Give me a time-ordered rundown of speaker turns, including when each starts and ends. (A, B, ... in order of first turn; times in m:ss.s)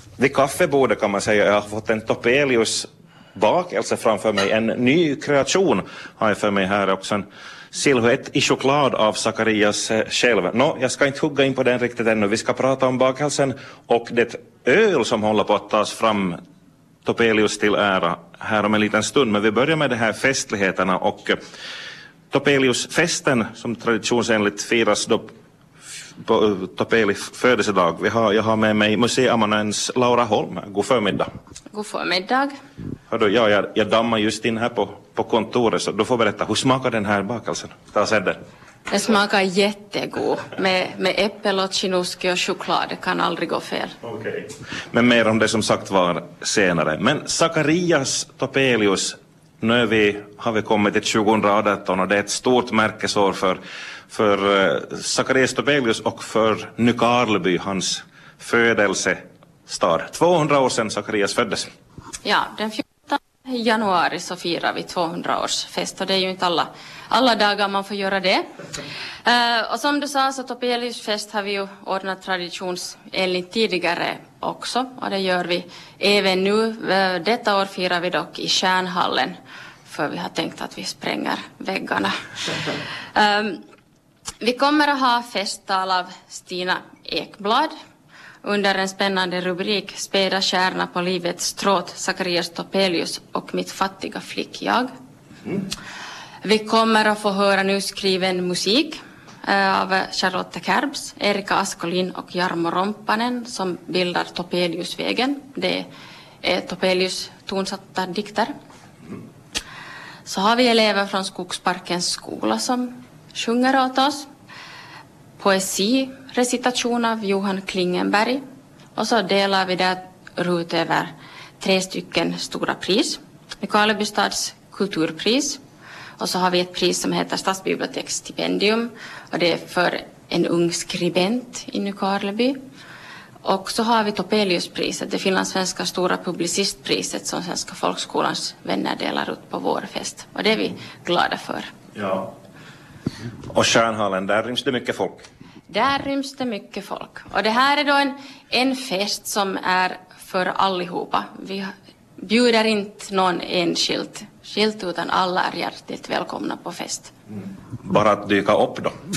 0:00.2-0:16.4 A
0:17.0-0:21.4 A
0:22.3-0:25.3 A
0:26.2-0:31.3 A
0:31.7-0:32.5 B
0:33.1-0:38.4 A
0:38.9-0:43.9 B
0:44.0-1:01.7 A
1:02.2-1:08.4 B
1:09.2-1:19.4 B
1:19.9-1:23.6 B
1:24.4-1:27.7 B
1:28.4-1:34.9 B
1:36.4-1:45.9 B
1:46.4-1:48.5 B
1:50.3-1:54.3 B
1:55.4-1:58.4 B
1:59.0-2:05.6 B
2:06.2-2:12.6 B
2:13.4-2:21.7 B
2:22.0-2:22.3 A
2:23.5-2:25.2 A
2:25.7-2:37.1 B
2:37.8-2:38.9 A